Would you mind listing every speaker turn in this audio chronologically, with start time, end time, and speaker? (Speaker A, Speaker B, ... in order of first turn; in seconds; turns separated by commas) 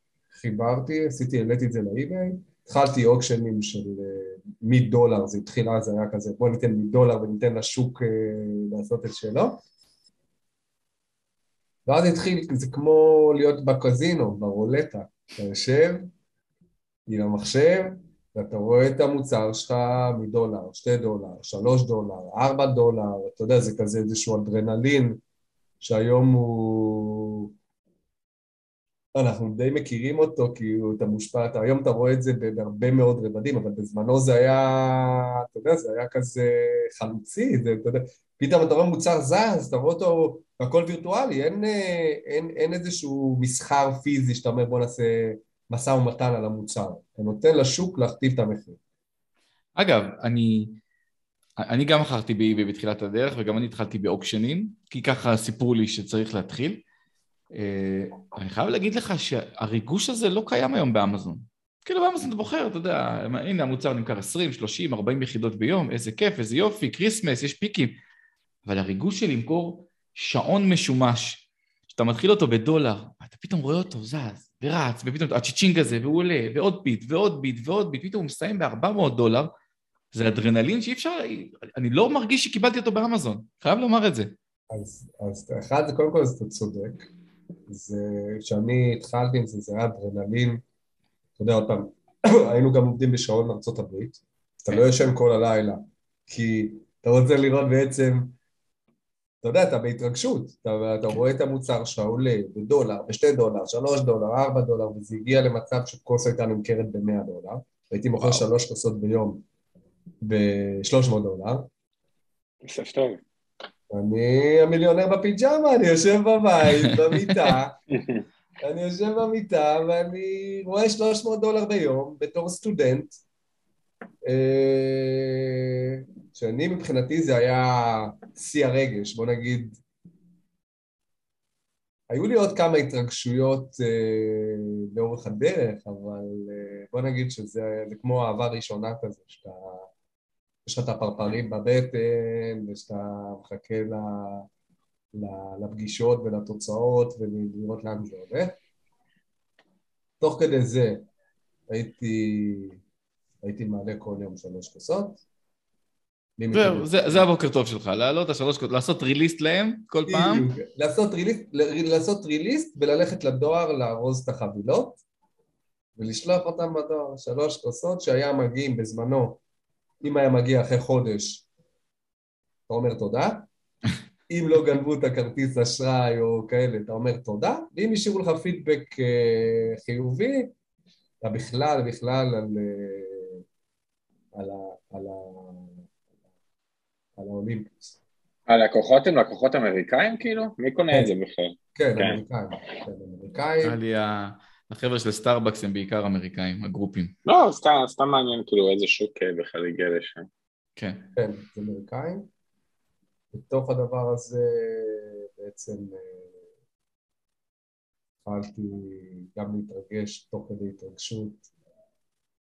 Speaker A: 0.3-9.6, Speaker A: 11.8-16.1, Speaker A: 17.1-25.2, Speaker A: 25.8-27.5, Speaker A: 29.1-48.8, Speaker B: 49.8-50.8, Speaker B: 51.6-56.8, Speaker B: 57.5-68.0, Speaker B: 68.6-79.5, Speaker B: 80.1-84.3, Speaker A: 84.7-87.1, Speaker A: 87.7-90.6, Speaker A: 91.4-98.3, Speaker A: 99.4-109.4, Speaker A: 110.2-111.7, Speaker C: 112.6-113.2, Speaker A: 113.9-117.8, Speaker C: 117.9-118.2, Speaker A: 118.6-123.2, Speaker A: 124.2-129.8, Speaker A: 132.1-139.9, Speaker A: 140.7-144.5, Speaker A: 145.1-148.6, Speaker A: 150.2-151.1, Speaker A: 151.7-152.8, Speaker A: 153.4-155.2, Speaker A: 156.4-157.3, Speaker B: 156.5-160.5, Speaker A: 160.1-165.0, Speaker A: 166.0-169.4, Speaker A: 170.0-171.4, Speaker A: 172.7-173.5, Speaker A: 174.3-180.5, Speaker A: 181.2-183.4, Speaker A: 184.3-185.8, Speaker A: 187.2-187.9, Speaker C: 188.5-192.2, Speaker A: 191.7-193.8, Speaker B: 193.6-197.1, Speaker C: 197.2-200.3, Speaker B: 200.8-201.0, Speaker A: 201.1-202.3, Speaker A: 203.3-206.3, Speaker A: 208.2-211.4